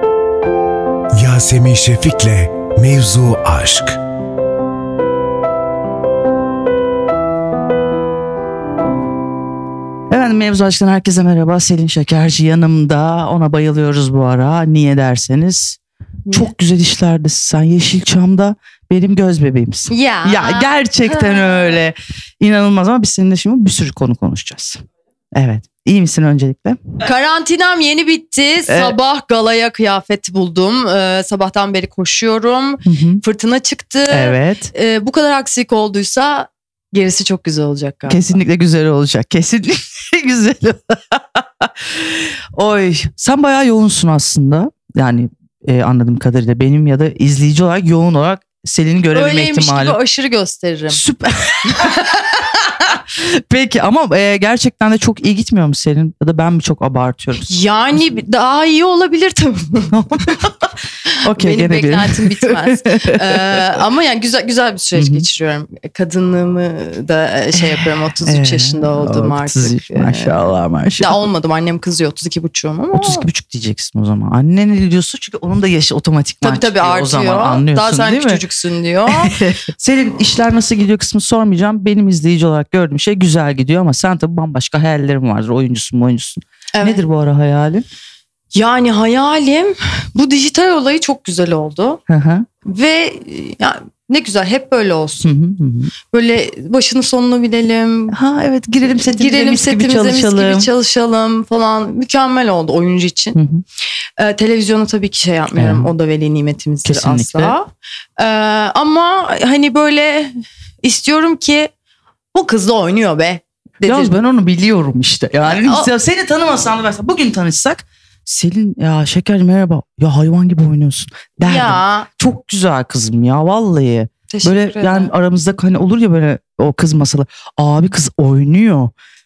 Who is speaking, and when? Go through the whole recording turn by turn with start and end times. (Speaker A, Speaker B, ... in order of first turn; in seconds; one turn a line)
Speaker A: 1.1-4.0
Speaker B: 10.1-15.8
Speaker C: 16.2-16.5
Speaker B: 16.3-24.8
Speaker C: 19.9-21.7
Speaker B: 25.3-26.8
Speaker C: 27.0-38.3
Speaker B: 28.7-29.0
Speaker B: 32.8-33.2
Speaker B: 34.1-34.7
Speaker B: 38.1-50.0
Speaker C: 49.1-51.0
Speaker B: 50.9-52.0
Speaker C: 51.6-52.8
Speaker B: 52.9-57.5
Speaker C: 57.5-60.0
Speaker B: 59.9-60.7
Speaker C: 61.1-70.5
Speaker B: 61.2-63.8
Speaker B: 64.9-65.3
Speaker B: 67.5-71.2
Speaker C: 71.0-73.3
Speaker B: 72.9-78.4
Speaker C: 76.4-79.3
Speaker B: 79.1-87.8
Speaker C: 86.7-87.0
Speaker C: 88.5-92.0
Speaker B: 92.1-92.5
Speaker C: 92.6-95.3
Speaker B: 95.2-95.9
Speaker C: 96.1-98.2
Speaker B: 98.1-100.7
Speaker C: 99.1-103.4
Speaker B: 103.3-103.6
Speaker C: 104.2-111.7
Speaker B: 105.5-105.9
Speaker B: 106.8-107.5
Speaker C: 112.3-114.2
Speaker B: 113.8-128.9
Speaker C: 115.5-115.9
Speaker C: 121.4-122.1
Speaker C: 124.3-125.1